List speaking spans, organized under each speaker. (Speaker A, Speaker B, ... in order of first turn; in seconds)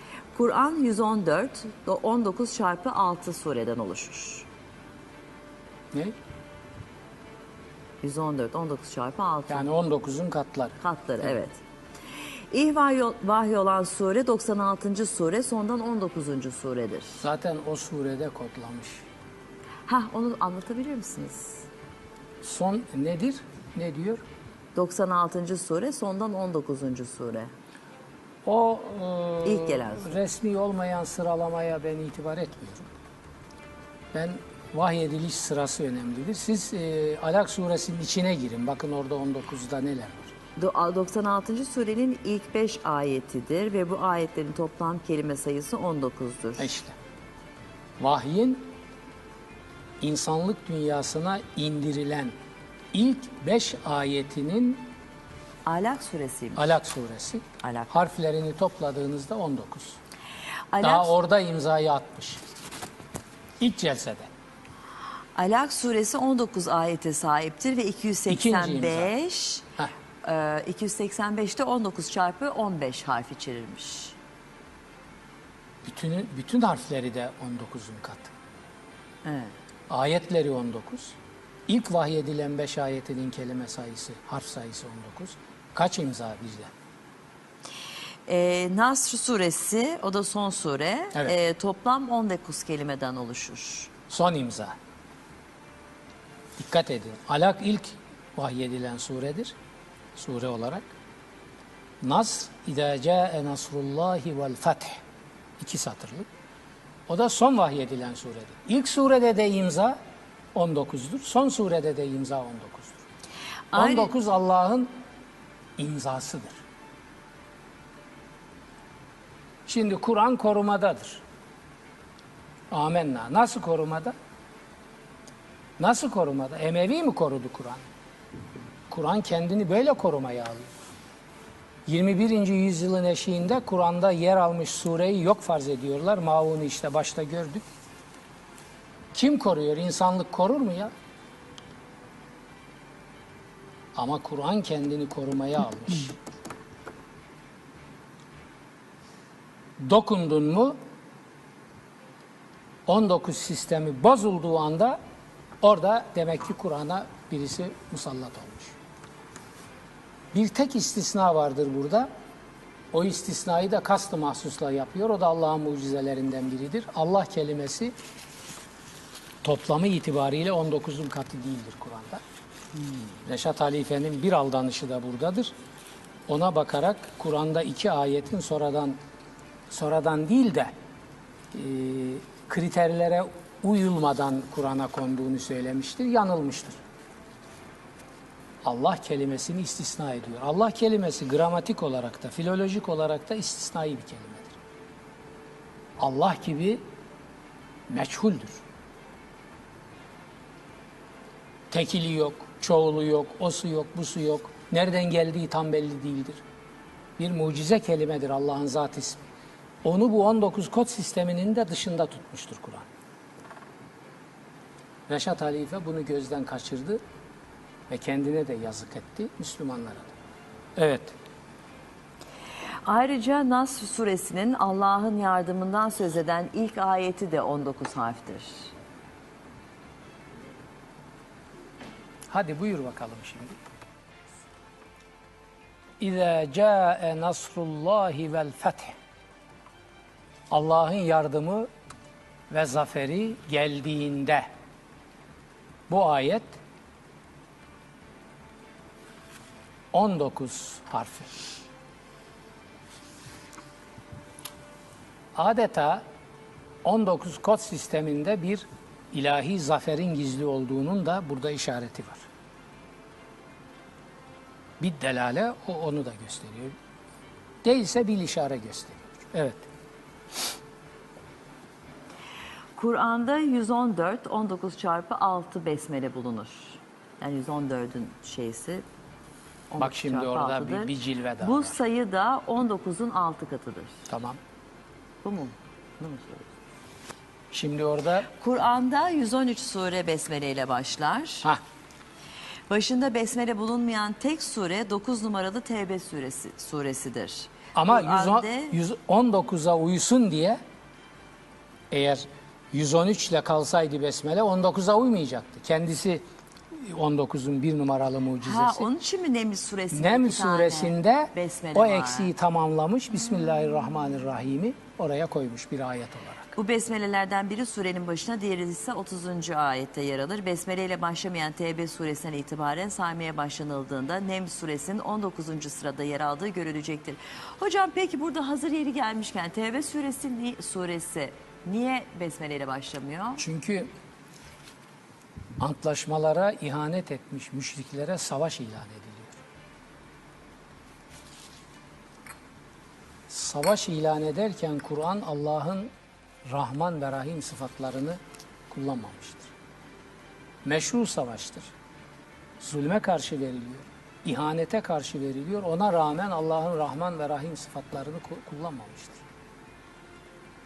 Speaker A: 0.3-4.5, 8.0-9.7, 10.8-11.6, 12.2-17.3, 19.9-21.7, 24.7-27.5, 29.4-30.2, 40.5-46.8, 55.6-56.8, 57.6-58.0, 60.7-61.1, 65.3-74.2, 79.2-79.5, 88.3-93.9, 113.7-114.1, 222.8-228.7, 272.8-278.9, 279.7-284.1, 285.2-286.5, 288.2-291.5, 292.7-298.8, 308.4-312.3, 316.6-333.4
Speaker B: 9.5-11.4, 17.2-19.1, 22.4-24.2, 28.4-32.9, 34.1-40.3, 46.6-46.9, 48.0-48.7, 50.0-52.3, 52.9-54.9, 56.5-60.0, 60.8-62.4, 63.6-64.3, 68.3-69.1, 75.8-78.3, 79.9-86.7, 94.1-94.8, 96.6-99.5, 100.2-100.9, 102.0-105.0, 105.6-106.3, 107.1-110.0, 110.5-113.0, 113.7-114.9, 115.8-116.6, 119.7-121.2, 122.7-124.1, 125.8-127.8, 128.9-130.7, 131.8-137.6, 139.1-140.9, 143.9-146.2, 149.8-150.8, 152.9-155.0, 155.6-158.8, 160.3-162.1, 162.9-167.9, 169.4-172.2, 173.2-175.5, 176.3-179.0, 179.7-180.7, 181.5-186.8, 188.6-194.6, 196.0-196.8, 197.9-198.6, 201.7-206.4, 207.2-209.2, 209.8-212.9, 215.1-217.0, 217.9-220.1, 220.8-221.2, 232.3-233.6, 236.0-238.9, 240.5-241.7, 242.5-244.5, 245.9-246.6, 249.9-251.3, 255.3-256.0, 256.8-262.3, 264.8-266.8, 267.6-269.7, 279.8-281.8, 284.1-284.4, 287.5-288.3, 297.7-300.6, 301.9-308.9, 309.9-316.5, 333.4-333.9, 335.6-339.4, 343.3-345.9, 346.4-349.5, 350.6-351.7, 352.6-359.2